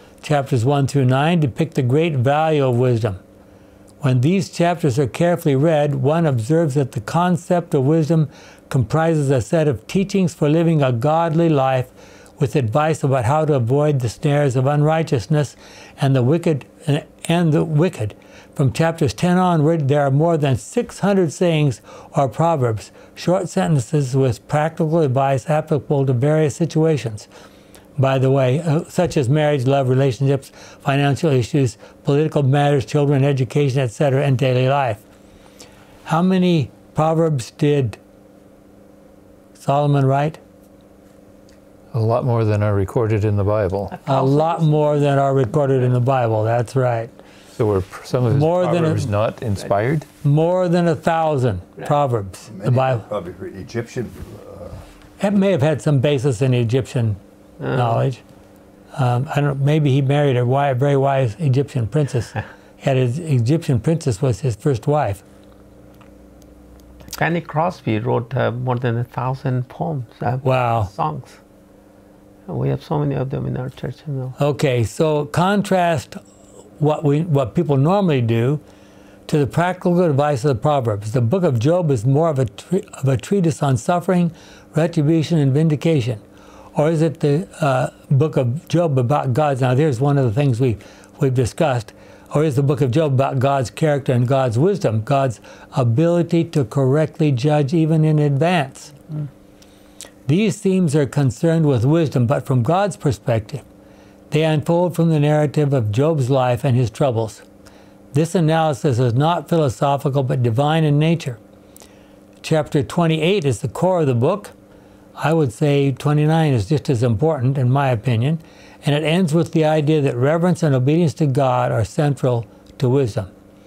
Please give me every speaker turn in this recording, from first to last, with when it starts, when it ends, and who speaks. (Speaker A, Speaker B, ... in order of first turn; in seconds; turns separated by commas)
Speaker A: 0.2-3.2, Speaker A: 4.0-27.3, Speaker A: 28.0-35.0, Speaker A: 36.1-38.0, Speaker A: 39.6-40.4, Speaker B: 41.9-44.0, Speaker A: 44.0-47.1, Speaker B: 47.5-50.1, Speaker A: 48.3-49.1, Speaker A: 50.2-53.0, Speaker C: 52.5-54.8, Speaker A: 55.2-57.2, Speaker A: 57.7-58.2, Speaker A: 59.0-65.2, Speaker D: 67.2-71.4, Speaker A: 70.4-70.9, Speaker D: 72.5-74.4, Speaker A: 74.4-76.2, Speaker A: 76.8-78.6, Speaker A: 79.3-86.2, Speaker A: 86.8-99.0, Speaker A: 100.3-103.6, Speaker A: 104.3-107.4, Speaker A: 108.1-111.4, Speaker A: 112.4-114.5, Speaker A: 115.2-123.3